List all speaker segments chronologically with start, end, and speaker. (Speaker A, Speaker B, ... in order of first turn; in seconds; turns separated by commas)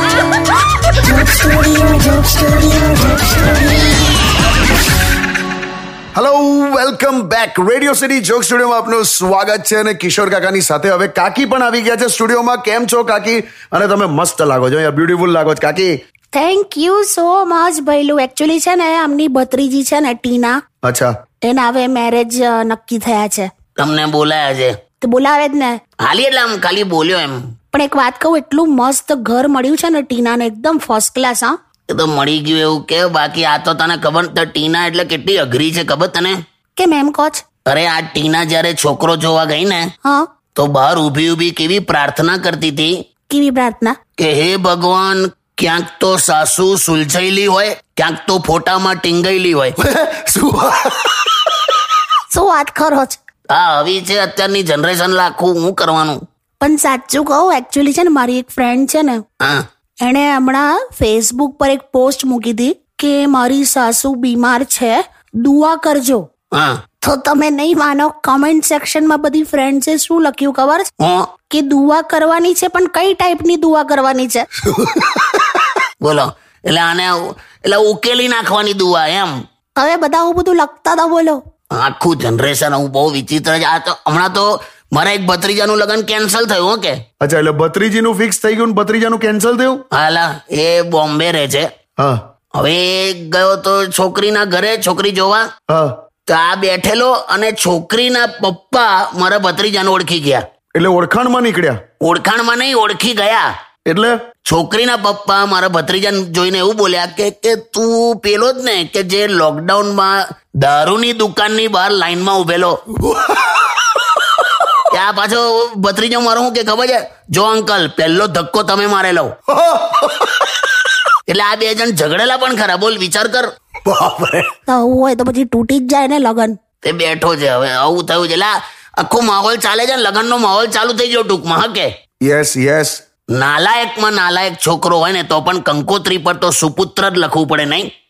Speaker A: 1.1-3.5, Speaker B: 6.2-15.9, Speaker A: 16.3-20.6, Speaker B: 20.8-21.1, Speaker A: 21.4-23.5, Speaker C: 23.8-24.8, Speaker A: 25.0-25.8, Speaker C: 26.1-27.4, Speaker A: 27.7-31.6, Speaker C: 31.9-36.4, Speaker A: 36.8-37.5, Speaker C: 37.7-39.9, Speaker C: 40.6-43.0, Speaker A: 43.3-44.0, Speaker C: 44.2-49.8, Speaker B: 49.9-51.2, Speaker A: 52.3-53.2, Speaker C: 53.5-56.2, Speaker A: 56.6-59.2, Speaker A: 60.0-66.3, Speaker A: 67.0-70.9, Speaker C: 71.0-71.3, Speaker A: 71.5-74.5, Speaker C: 74.7-75.4, Speaker C: 76.0-79.4, Speaker A: 79.8-81.4, Speaker C: 81.7-87.0, Speaker B: 87.2-89.8, Speaker C: 89.9-91.7, Speaker C: 92.5-95.5, Speaker C: 96.3-100.4, Speaker B: 100.7-101.8, Speaker C: 102.0-103.5, Speaker B: 103.9-104.2, Speaker C: 104.5-112.8, Speaker C: 114.9-119.3, Speaker B: 119.5-120.1, Speaker C: 121.3-124.5, Speaker A: 124.7-126.6, Speaker C: 126.8-131.9, Speaker B: 132.2-133.0, Speaker C: 133.3-137.9